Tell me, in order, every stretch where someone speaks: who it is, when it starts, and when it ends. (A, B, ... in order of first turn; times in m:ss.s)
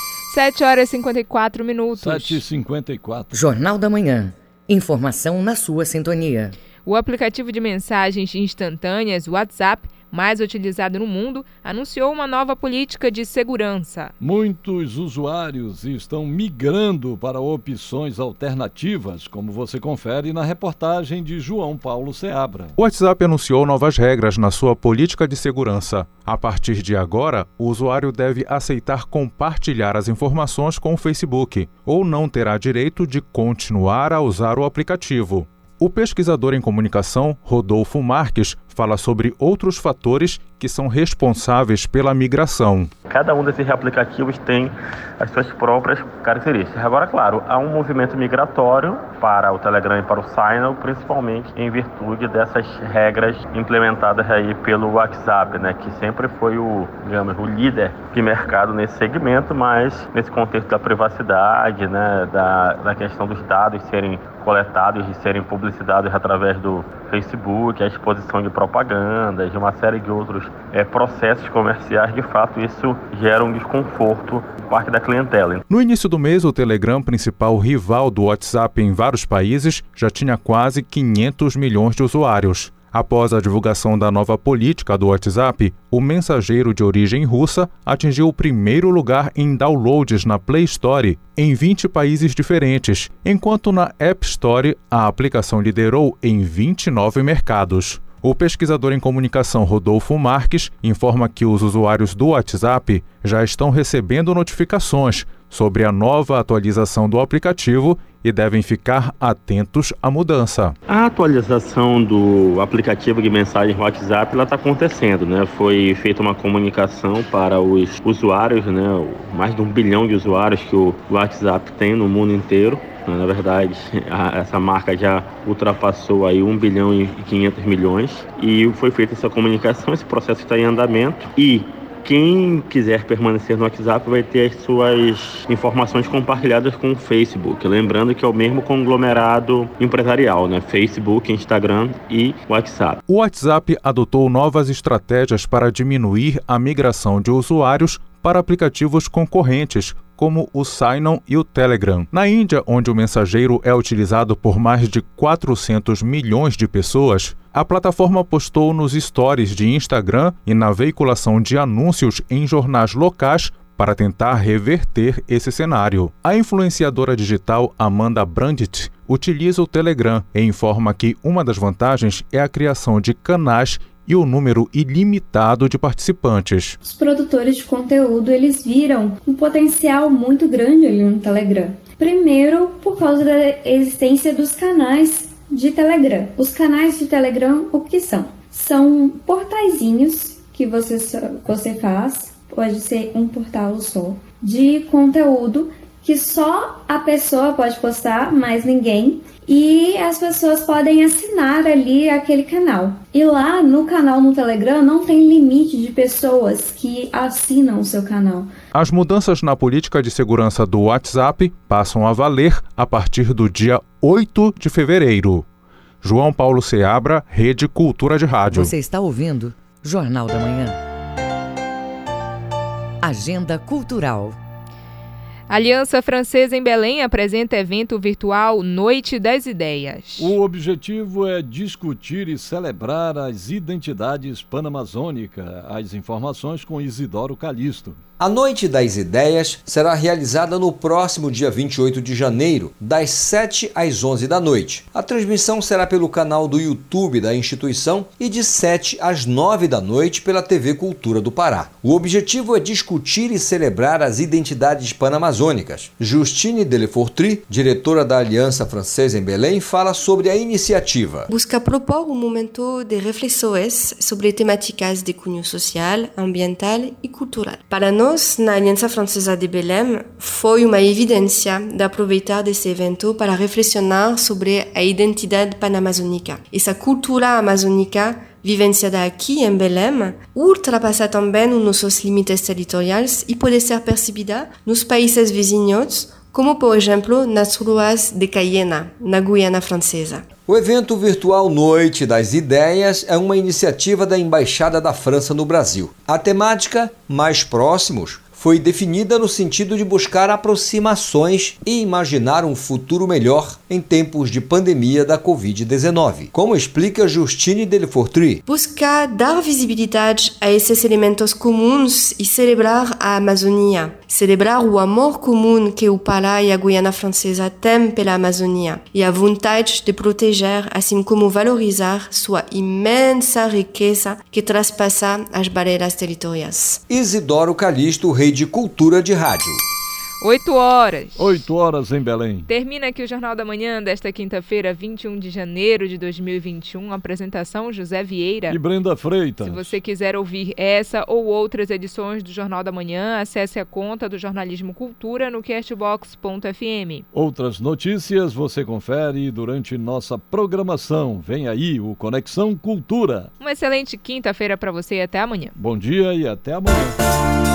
0:00.3-0:02.4 A
0:02.0-0:03.3 B
0:03.3-0:06.6 C
0:06.8-0:14.1 A
0:14.2-0:22.7 B
0:22.8-0:42.9 D
0:43.1-1:15.6 E
1:15.7-1:50.8 D
1:50.9-2:23.0 E
2:23.1-2:56.8 D
2:56.8-3:28.5 F
3:28.7-3:35.5 D
3:36.0-3:38.7 D
3:38.5-3:40.8 C
3:43.0-3:44.4 C
3:45.5-3:50.3 A
3:50.2-3:58.0 B
3:58.2-4:21.3 G
4:21.3-4:50.3 H
4:50.5-5:08.4 G
5:08.5-5:26.8 H
5:26.9-5:29.6 G
5:30.2-5:31.3 A
5:31.2-5:32.5 B
5:32.5-5:38.6 A
5:38.5-5:39.8 B
5:39.5-5:47.0 A
5:47.1-5:53.3 B
5:53.4-5:55.6 A
5:55.6-5:57.0 B